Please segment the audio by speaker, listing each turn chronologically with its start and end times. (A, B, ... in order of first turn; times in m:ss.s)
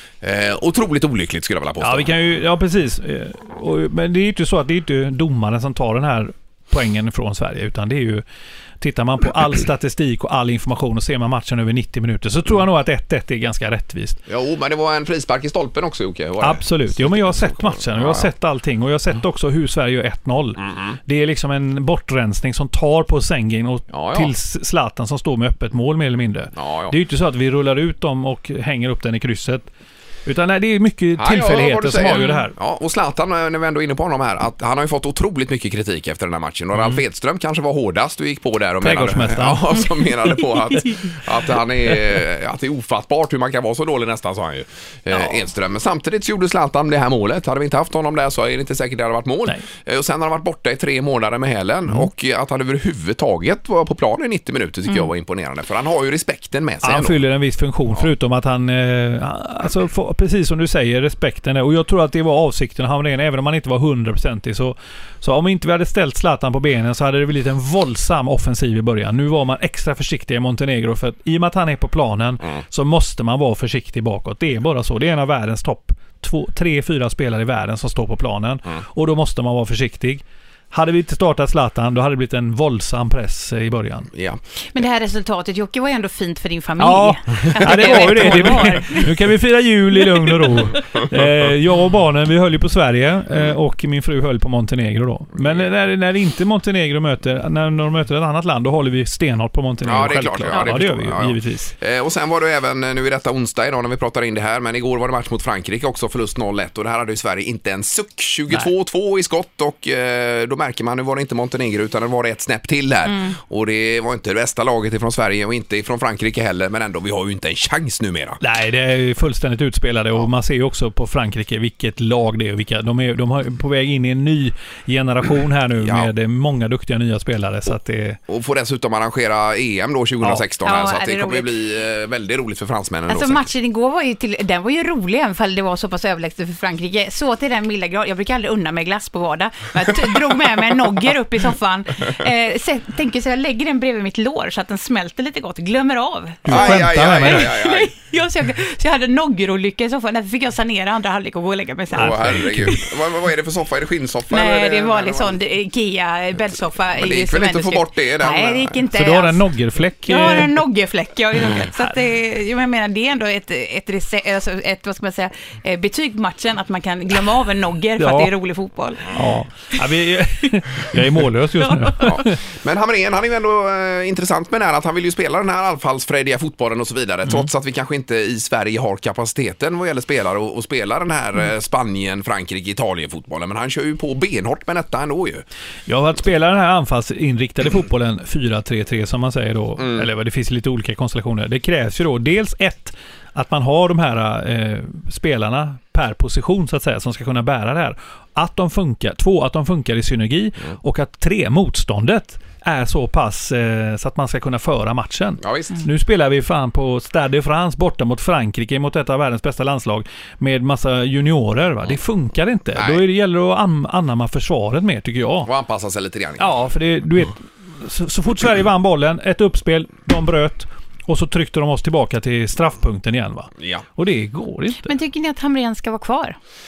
0:00.2-0:02.1 A
0:01.8-0:08.2 B
0:08.8-0:14.2 B
0:14.3-0:18.3 A
0:16.4-0:29.7 B
0:20.6-0:21.0 A
0:23.9-0:24.3 A
0:26.6-0:27.0 A
0:30.3-0:32.6 B
0:31.2-0:57.2 A
0:32.1-0:32.4 C
0:36.8-0:37.0 B
0:38.8-0:39.8 B
0:56.8-1:24.1 B
1:24.1-1:24.4 A
1:24.8-1:29.1 C
1:26.8-1:41.7 B
1:27.6-1:28.8 A
1:39.8-1:58.4 A
1:53.1-1:53.3 C
1:58.4-2:08.2 B
2:05.8-2:06.1 A
2:08.3-2:13.5 A
2:10.6-2:11.6 C
2:13.1-2:32.8 C
2:26.4-2:27.5 B
2:26.5-2:27.9 A
2:32.0-2:35.4 A
2:32.0-2:32.8 B
2:34.3-2:39.4 C
2:37.0-2:38.8 A
2:38.9-2:40.6 B
2:40.1-2:49.2 C
2:48.0-2:48.3 B
2:49.1-2:52.4 B
2:51.6-2:51.9 C
2:52.0-3:05.4 A
3:05.9-3:35.5 B
3:09.8-3:10.1 A
3:25.4-3:25.8 A
3:32.8-3:33.0 A
3:35.4-3:36.5 A
3:36.4-3:44.9 B
3:43.6-3:43.8 A
3:44.9-3:46.4 C